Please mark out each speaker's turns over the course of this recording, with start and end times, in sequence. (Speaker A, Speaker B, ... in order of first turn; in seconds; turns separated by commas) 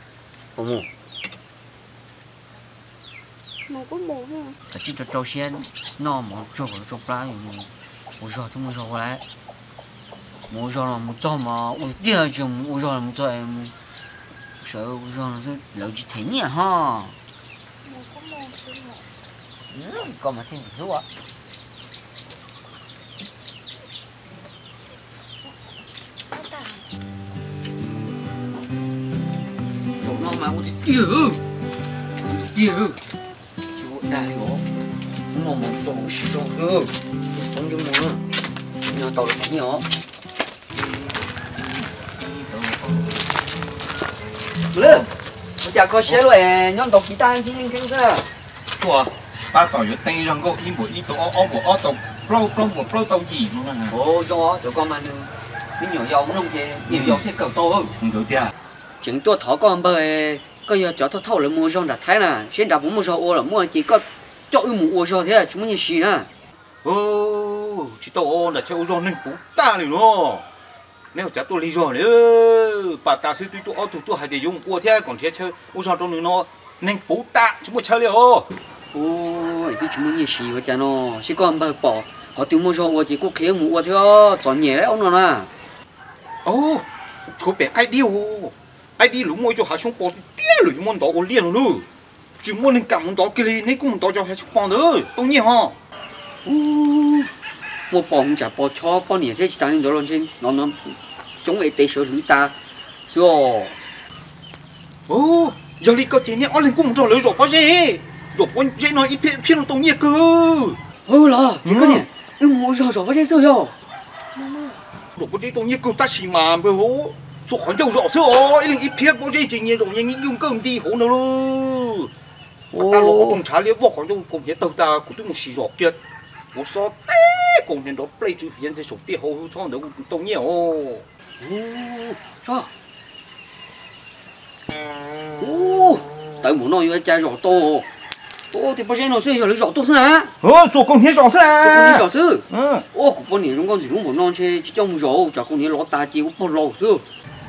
Speaker A: 0.6-0.9, Speaker B: 3.7-4.6, Speaker A: 4.7-9.2, Speaker A: 10.5-13.7, Speaker A: 14.6-17.2, Speaker B: 17.8-19.1, Speaker A: 19.7-21.1, Speaker B: 26.3-26.9, Speaker A: 30.0-31.4, Speaker A: 32.3-33.0, Speaker A: 33.8-34.6, Speaker A: 35.3-38.2, Speaker A: 38.9-39.9, Speaker C: 40.8-43.3, Speaker A: 44.7-45.1, Speaker C: 44.8-45.1, Speaker A: 45.6-48.3, Speaker C: 48.8-54.0, Speaker A: 53.9-57.9, Speaker C: 56.9-57.2, Speaker C: 58.0-58.5, Speaker A: 59.0-66.3, Speaker C: 66.8-70.5, Speaker C: 71.1-78.5, Speaker A: 78.9-85.5, Speaker C: 86.4-91.9, Speaker C: 92.4-95.8, Speaker C: 96.4-97.3, Speaker A: 97.9-102.5, Speaker A: 103.1-103.8, Speaker C: 105.1-110.8, Speaker A: 111.1-113.7, Speaker C: 111.6-112.0, Speaker B: 114.3-114.8, Speaker C: 115.2-122.1, Speaker A: 122.7-123.4, Speaker C: 122.7-126.0, Speaker C: 126.5-131.1, Speaker A: 131.4-132.7, Speaker A: 135.4-137.9, Speaker A: 138.5-140.3, Speaker C: 140.4-142.8, Speaker A: 141.6-147.0